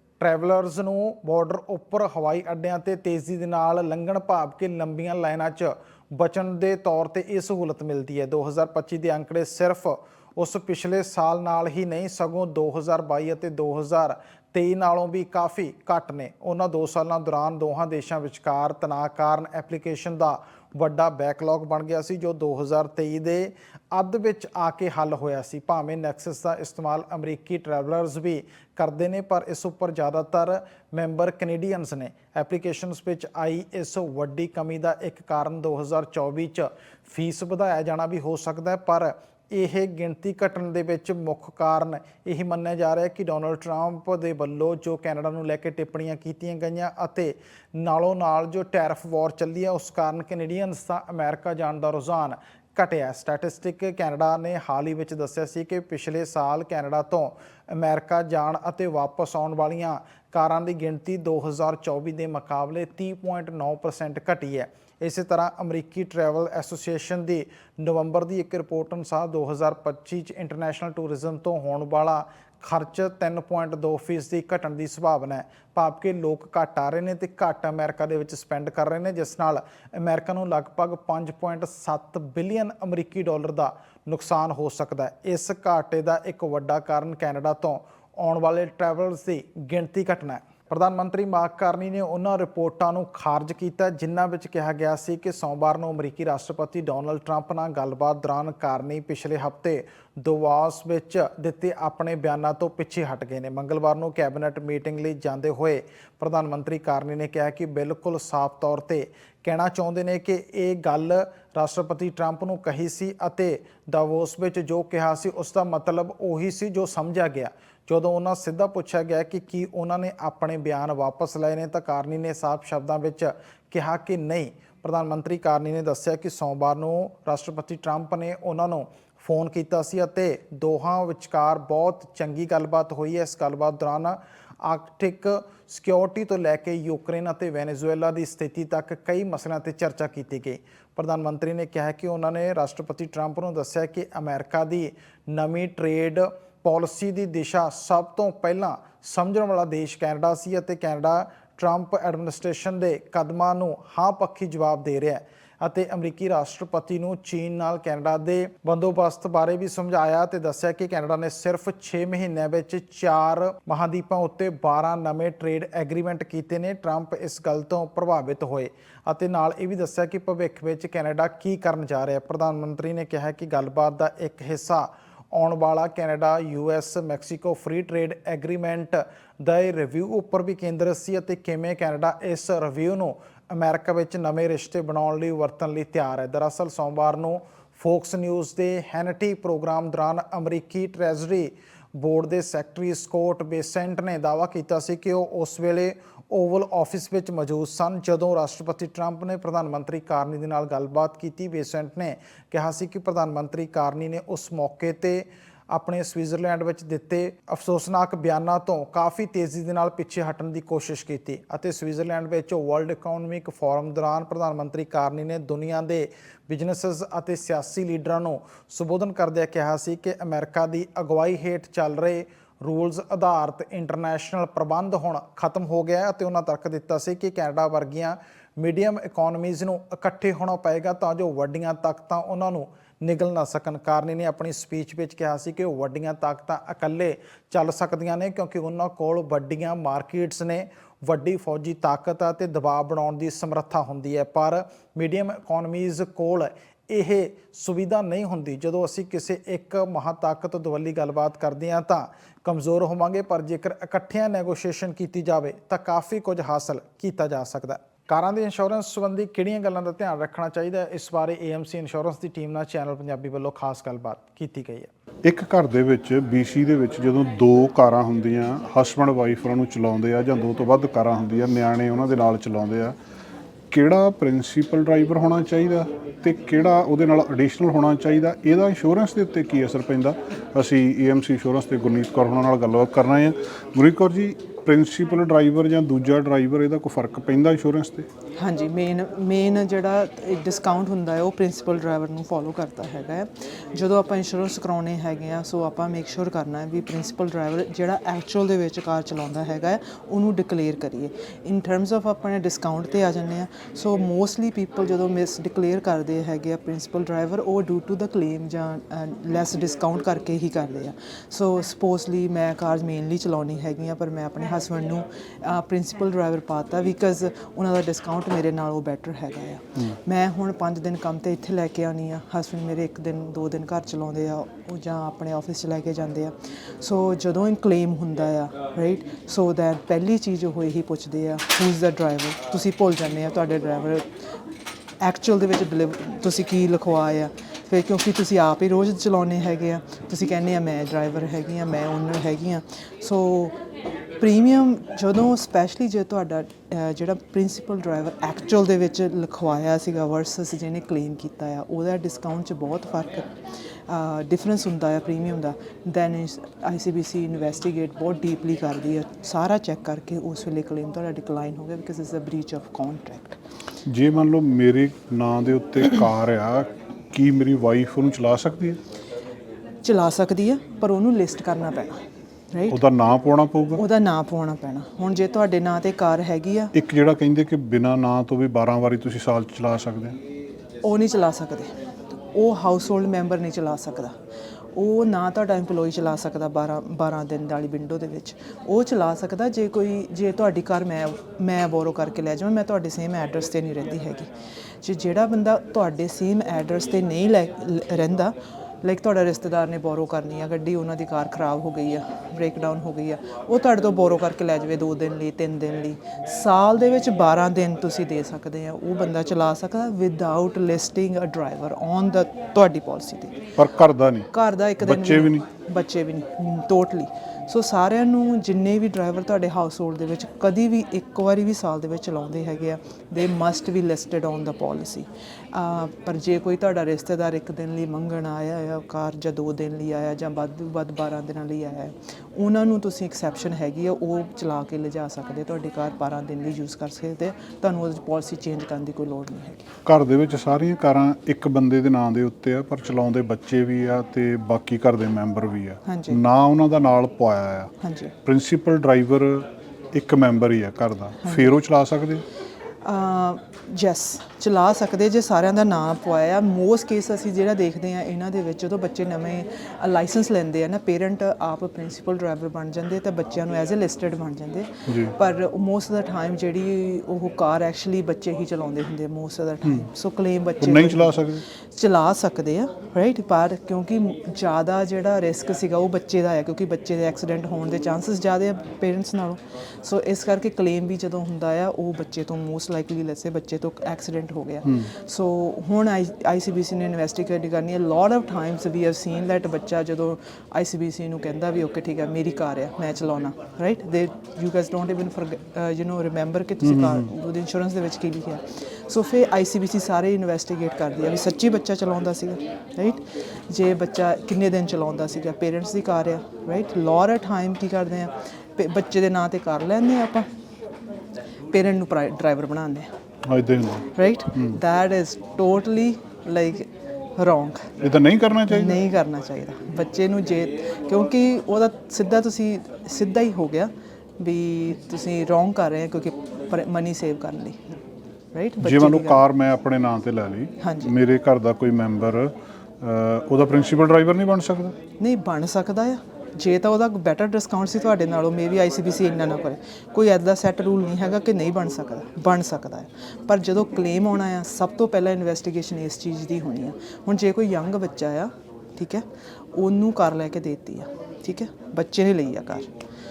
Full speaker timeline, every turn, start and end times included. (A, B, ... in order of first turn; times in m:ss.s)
0:00.2-4:24.9 A
4:25.2-4:33.0 B
4:33.7-4:48.1 B
4:48.4-5:34.1 C
5:35.0-5:43.6 C
5:44.2-5:53.3 C
5:53.9-6:03.4 C
6:03.9-6:08.8 B
6:09.8-6:12.8 C
6:12.7-6:13.8 B
6:13.8-6:16.7 C
6:16.7-6:20.2 B
6:20.8-6:24.2 C
6:24.7-6:34.3 C
6:34.8-6:53.5 C
6:53.6-6:55.4 B
6:54.3-7:19.7 C
7:19.9-7:27.7 B
7:25.9-7:26.2 C
7:27.8-7:28.1 C
7:28.2-7:32.2 B
7:31.2-7:31.6 C
7:32.8-8:30.3 C
7:44.9-7:45.1 B
7:49.6-7:49.9 B
7:50.6-7:51.4 B
8:04.6-8:04.9 B
8:16.6-8:17.1 B
8:31.5-8:32.9 C
8:33.3-8:34.6 B
8:34.0-8:37.7 C
8:37.8-8:38.8 B
8:38.5-8:47.8 C
8:48.3-8:49.2 C
8:48.6-8:54.8 B
8:50.6-8:50.9 C
8:55.0-9:12.7 C